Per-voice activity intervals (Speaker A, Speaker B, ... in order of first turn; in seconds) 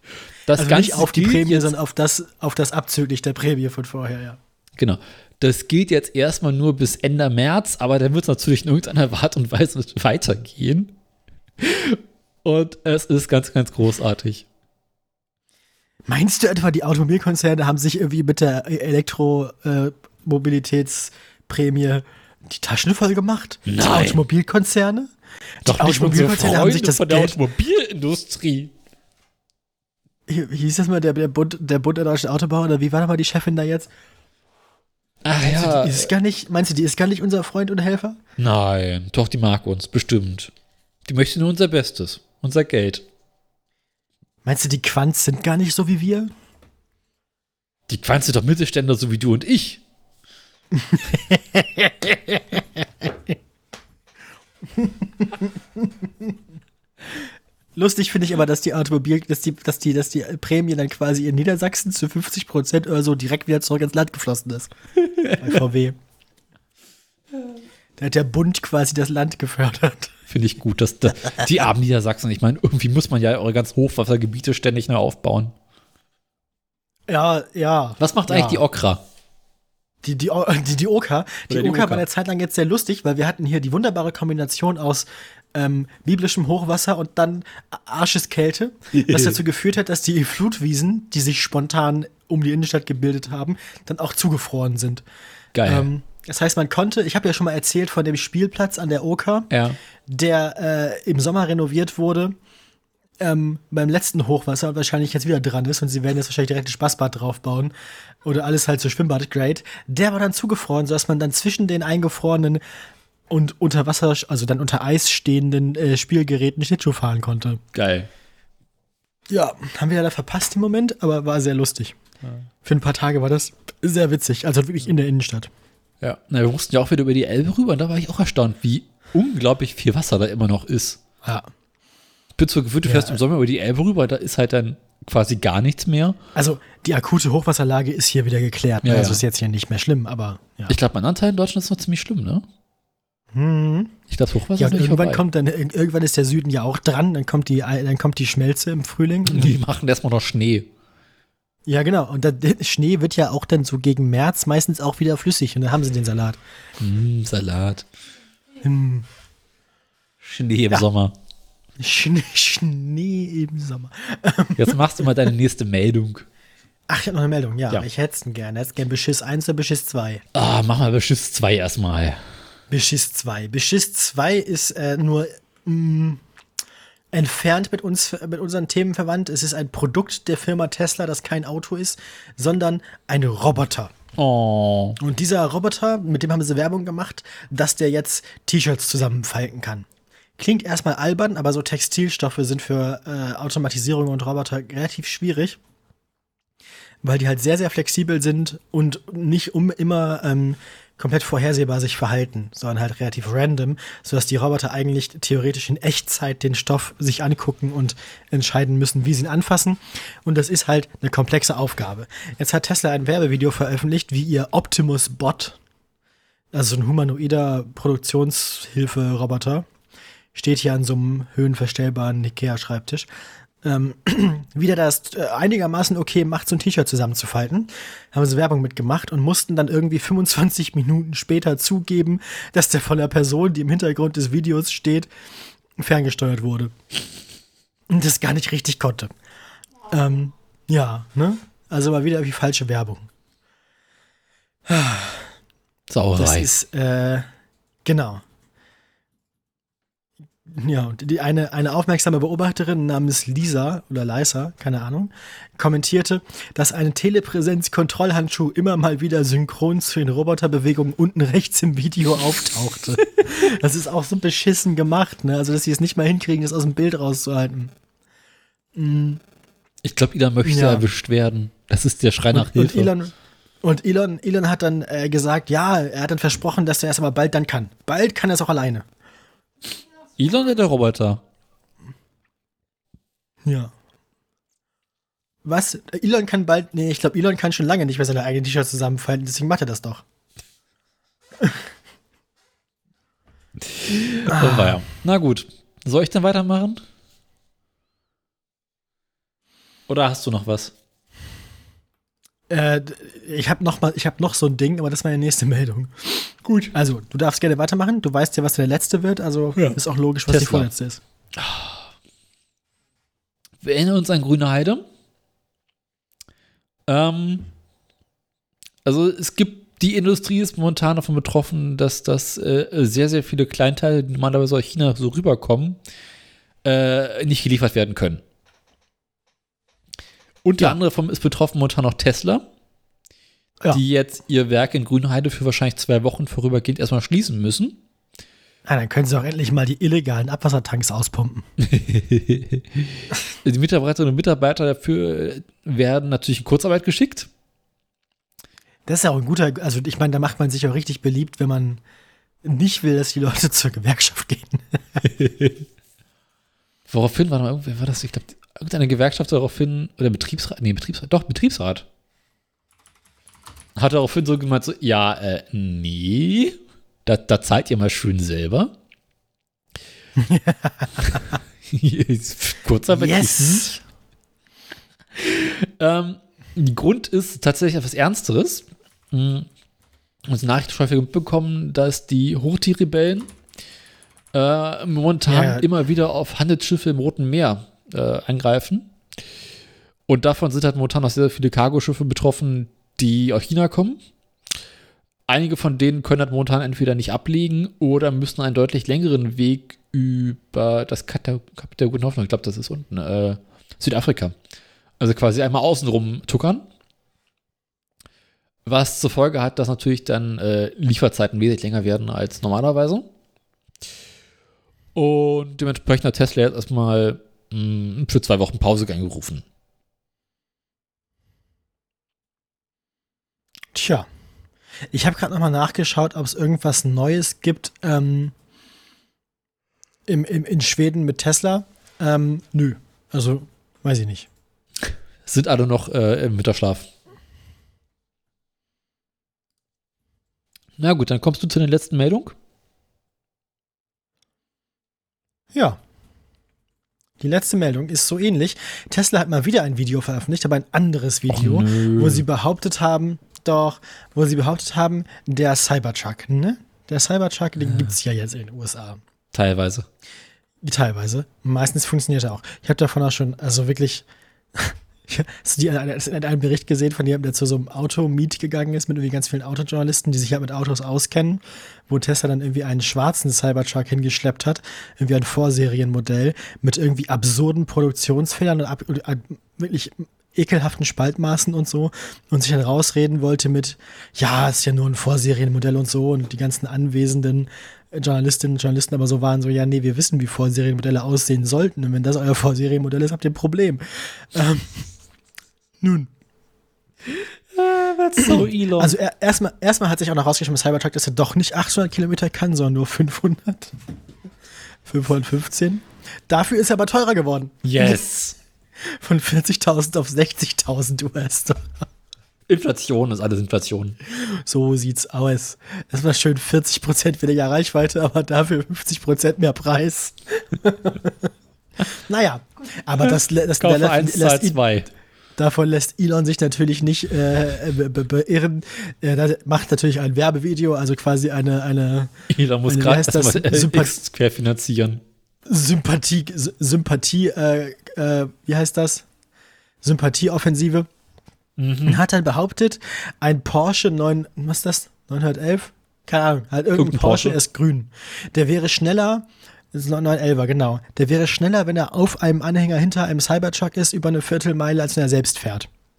Speaker A: 0.5-1.7, 4.8-10.9, 11.6-14.5, 23.7-24.2, 25.6-28.7, 35.2-36.1, 38.4-40.5, 41.1-43.0, 47.9-49.8, 65.0-65.6, 70.3-75.5, 78.0-79.0, 81.5-82.0, 88.9-89.4, 95.5-95.9, 99.5-99.8, 117.7-118.1, 126.0-131.0, 132.4-136.2, 138.8-139.2, 140.7-142.4, 144.1-145.2, 149.3-150.7, 156.8-157.9, 160.2-161.2, 164.6-166.3, 170.3-172.2, 184.2-185.0, 245.9-246.5, 269.8-272.9, 280.2-281.2, 293.7-296.8, 299.9-300.7, 306.4-306.7, 309.6-310.7, 311.4-311.9, 313.6-314.8, 316.9-317.5, 318.9-325.8, 326.6-328.2, 330.4-332.4, 333.7-337.8, 341.6-347.3, 355.1-355.6, 356.9-361.9, 363.8-368.7, 371.0-373.8, 375.2-379.5, 380.3-383.3, 384.3-388.9, 390.1-394.0, 395.3-404.4, 405.0-406.7, 408.7-413.1, 414.9-419.4, 435.3-436.9, 440.8-442.4, 451.3-452.2, 457.7-457.9, 459.3-459.9, 497.2-498.9, 507.6-508.4, 512.5-514.0, 523.0-524.9, 532.3-535.0, 541.6-542.0, 546.7-547.4
Speaker B: 0.5-4.4, 16.1-25.1, 25.6-27.4, 30.3-33.9, 35.4-38.2, 44.4-46.3, 50.7-53.1, 54.8-56.3, 57.8-64.7, 65.4-66.0, 68.0-70.1, 77.1-78.6, 80.0-95.0, 95.6-99.5, 100.1-102.3, 103.2-107.7, 108.2-112.6, 113.3-117.6, 119.3-122.0, 122.6-125.5, 131.2-131.5, 132.8-133.2, 136.3-140.8, 143.3-144.0, 144.6-149.6, 151.7-156.4, 158.6-159.1, 161.8-165.3, 166.9-170.2, 172.7-176.2, 177.1-183.9, 185.0-189.9, 190.4-195.6, 197.0-215.6, 216.5-219.7, 220.3-223.1, 223.6-235.1, 235.8-236.7, 237.9-239.1, 239.9-243.1, 244.7-245.3, 246.2-247.3, 247.8-248.2, 250.5-267.7, 268.8-269.2, 270.4-270.9, 272.3-278.9, 283.4-283.7, 285.4-290.0, 291.4-291.6, 294.3-294.8, 302.5-311.0, 338.7-341.5, 348.9-351.8, 352.4-355.0, 370.2-371.4, 372.9-373.8, 385.3-385.7, 423.7-424.1, 424.9-428.3, 430.1-434.3, 445.5-445.8, 447.2-459.0, 460.6-494.9, 495.8-496.1, 498.2-503.7, 504.9-508.0, 508.8-511.7, 514.1-521.3, 521.9-524.6, 525.4-532.1, 532.7-533.9, 535.5-539.0, 539.8-540.9, 541.9-555.7